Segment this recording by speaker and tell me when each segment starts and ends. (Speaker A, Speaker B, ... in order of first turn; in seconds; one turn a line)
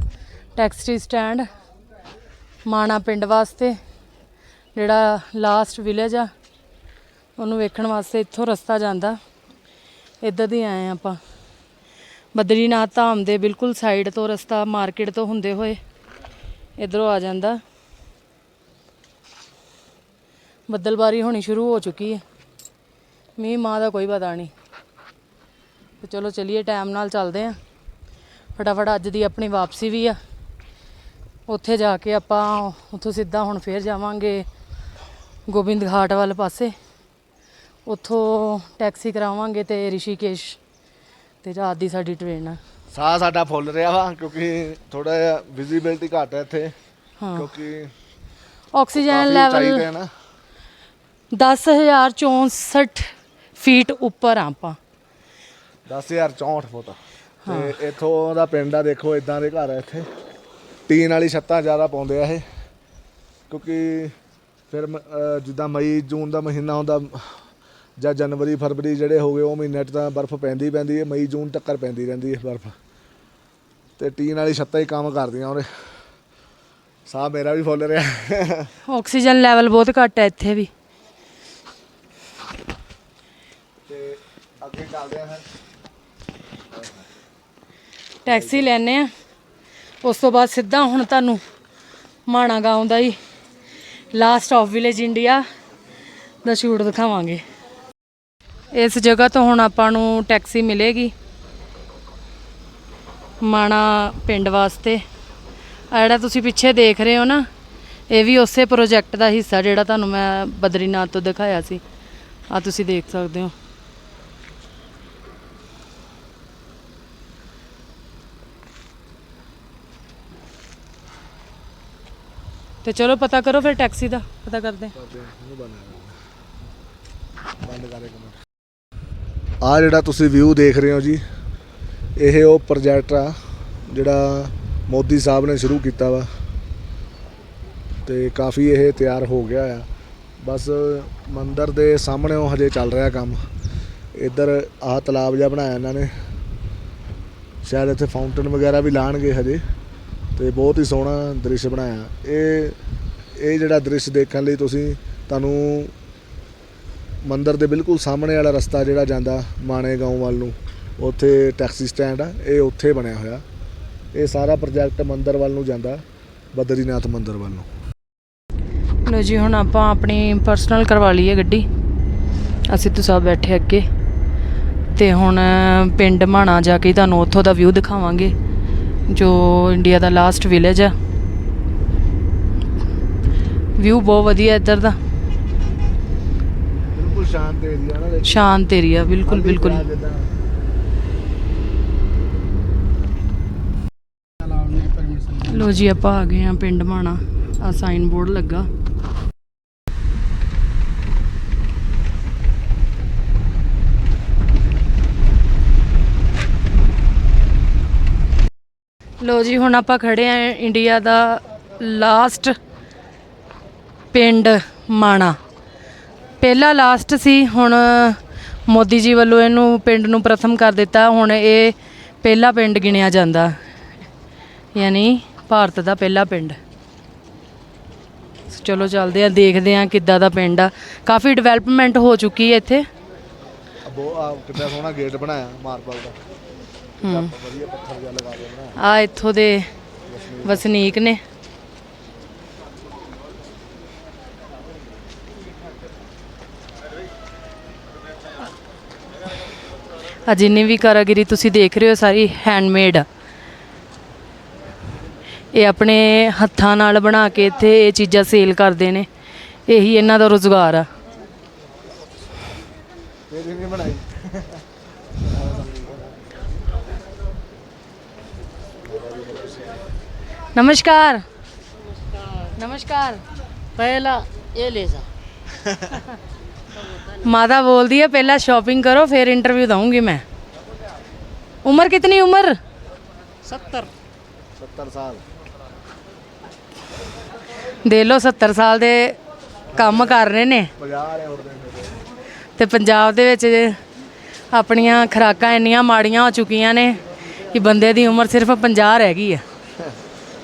Speaker A: 0.5-1.5
Speaker A: 2.6-3.8
Speaker A: 4.7-6.3
Speaker A: 7.4-9.2
Speaker A: 10.2-11.2
Speaker A: 12.3-15.8
Speaker A: 16.8-17.6
Speaker A: 20.7-22.2
Speaker A: 23.4-24.5
Speaker A: 26.0-27.6
Speaker A: 28.6-30.2
Speaker A: 31.5-34.5
Speaker A: 35.5-36.7
Speaker A: 37.8-40.6
Speaker A: 41.4-42.6
Speaker B: 42.9-46.8
Speaker A: 47.2-47.5
Speaker B: 47.3-47.9
Speaker A: 48.7-49.9
Speaker B: 48.9-50.1
Speaker A: 51.3-54.8
Speaker B: 55.9-60.1
Speaker A: 57.4-57.7
Speaker B: 60.9-62.5
Speaker B: 63.5-64.2
Speaker B: 64.7-67.4
Speaker B: 68.0-72.8
Speaker B: 74.0-75.9
Speaker B: 77.0-78.7
Speaker A: 78.9-80.7
Speaker B: 83.8-85.5
Speaker B: 86.7-87.0
Speaker A: 88.2-89.1
Speaker B: 88.2-88.7
Speaker A: 90.0-91.4
Speaker A: 92.3-93.2
Speaker A: 94.1-95.5
Speaker A: 96.4-97.4
Speaker A: 98.7-101.1
Speaker A: 103.4-105.0
Speaker A: 105.9-107.5
Speaker A: 108.1-111.8
Speaker A: 112.5-113.5
Speaker A: 122.8-124.9
Speaker B: 124.9-126.2
Speaker B: 127.6-128.4
Speaker B: 129.6-131.2
Speaker B: 132.2-136.3
Speaker B: 138.1-139.9
Speaker B: 140.4-143.4
Speaker B: 144.1-146.1
Speaker B: 147.6-149.6
Speaker B: 150.3-152.8
Speaker B: 153.3-155.9
Speaker B: 157.2-163.4
Speaker B: 164.1-167.7
Speaker A: 169.0-171.7
Speaker A: 172.7-173.9
Speaker A: 174.9-178.3
Speaker A: 179.1-180.9
Speaker A: 183.8-185.0
Speaker B: 186.9-188.6
Speaker A: 188.2-189.8
Speaker B: 189.2-190.3
Speaker A: 195.3-198.7
Speaker A: 209.2-212.6
Speaker A: 214.1-215.4
Speaker A: 216.4-223.6
Speaker A: 224.7-226.6
Speaker A: 228.5-232.9
Speaker B: 233.8-236.2
Speaker A: 237.0-237.3
Speaker B: 237.0-238.8
Speaker A: 238.8-239.7
Speaker B: 240.1-240.7
Speaker A: 240.4-241.2
Speaker A: 250.2-253.1
Speaker A: 255.5-259.1
Speaker A: 259.7-260.9
Speaker B: 263.3-264.6
Speaker B: 265.2-266.2
Speaker B: 268.8-269.8
Speaker A: 270.5-271.2
Speaker C: 272.1-272.5
Speaker A: 272.6-273.2
Speaker C: 273.7-275.1
Speaker C: 276.7-277.3
Speaker A: 277.2-280.2
Speaker A: 281.6-282.6
Speaker C: 283.4-283.9
Speaker B: 284.6-285.2
Speaker A: 287.8-289.2
Speaker B: 289.7-290.1
Speaker A: 289.7-290.7
Speaker B: 290.8-292.0
Speaker A: 292.6-293.8
Speaker A: 294.5-299.4